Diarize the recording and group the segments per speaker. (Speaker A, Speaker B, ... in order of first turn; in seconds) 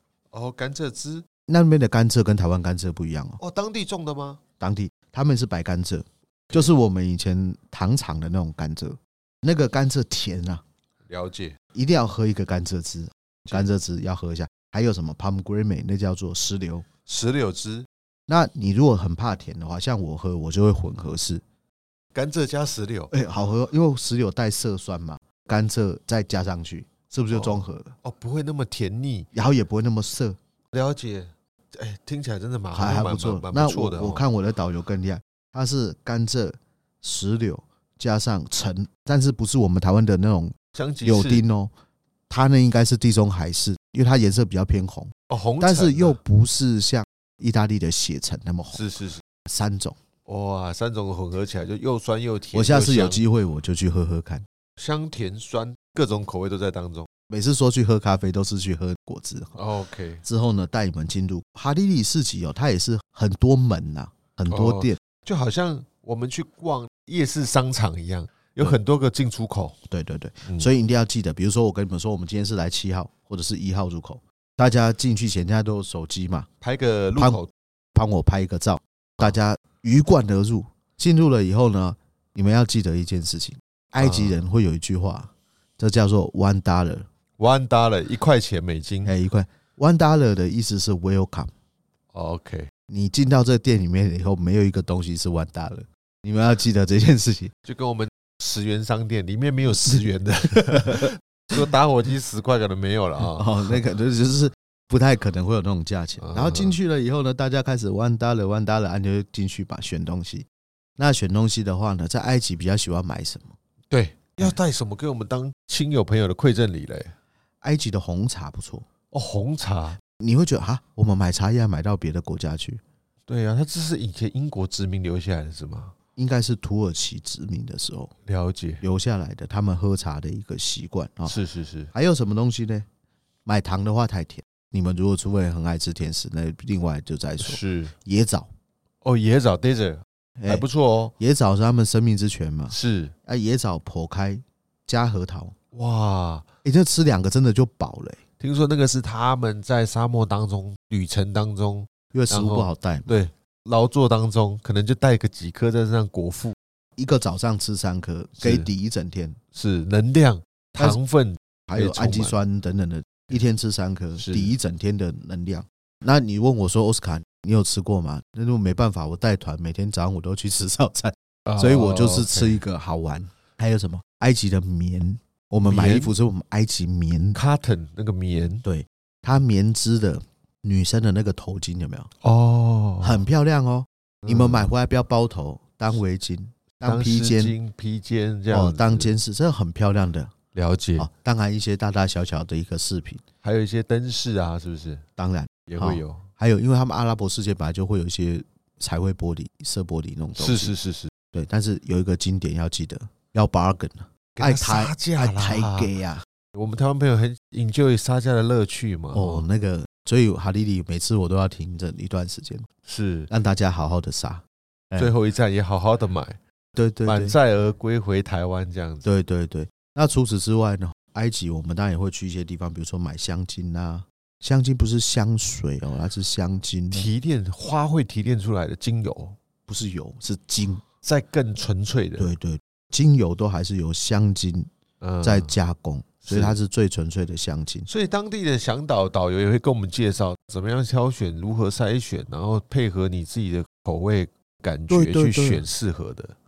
Speaker A: 0.3-1.2, 3.4-4.4, 11.1-11.6, 17.1-17.9, 22.1-23.1, 27.3-29.3, 30.7-34.2, 40.7-41.4, 45.3-46.2, 48.7-49.2, 50.2-53.2, 54.8-57.1, 59.5-60.2, 64.5-69.8, 76.6-77.5, 84.0-84.4, 87.4-89.1, 92.1-92.7, 97.6-103.5, 106.2-106.8, 113.9-117.1, 119.1-120.0, 123.3-125.9, 128.2-128.8, 131.2-131.9, 137.4-137.9, 139.0-141.1, 142.7-143.1, 145.7-146.5, 148.4-156.6, 158.4-158.7, 159.5-162.4, 164.2-164.5, 171.5-172.6, 175.6-176.1, 177.3-178.6, 182.2-183.2, 184.3-184.7, 186.8-189.1, 190.5-191.1, 193.4-195.0, 195.7-196.3, 200.3-201.1, 204.4-205.9, 206.5-209.4, 212.8-213.3, 215.0-216.4, 217.0-219.1, 226.9-229.4, 231.0-232.3, 235.0-235.5, 236.2-236.6, 237.9-246.3
Speaker B: 1.5-3.4, 4.6-10.6, 11.7-16.9, 18.3-21.4, 23.1-27.9, 29.3-30.4, 32.7-41.7, 42.3-48.8, 49.5-50.0, 52.5-54.4, 57.3-59.5, 60.2-65.0, 69.9-76.5, 77.1-77.4, 77.9-87.1, 89.0-91.5, 92.9-97.5, 100.7-101.0, 103.2-113.5, 117.6-118.8, 120.2-122.8, 126.2-128.1, 128.8-131.3, 131.9-132.8, 133.4-138.5, 140.4-140.7, 141.2-145.5, 146.6-148.2, 152.1-153.1, 157.0-159.4, 161.7-177.4, 178.6-182.1, 183.0-187.5, 188.5-190.3, 191.0-193.2, 195.2-200.7, 201.3-206.2, 209.1-212.7, 213.3-215.1, 216.7-217.3, 219.0-227.1, 229.7-230.8, 232.2-234.7, 235.2-237.9, 244.9-245.6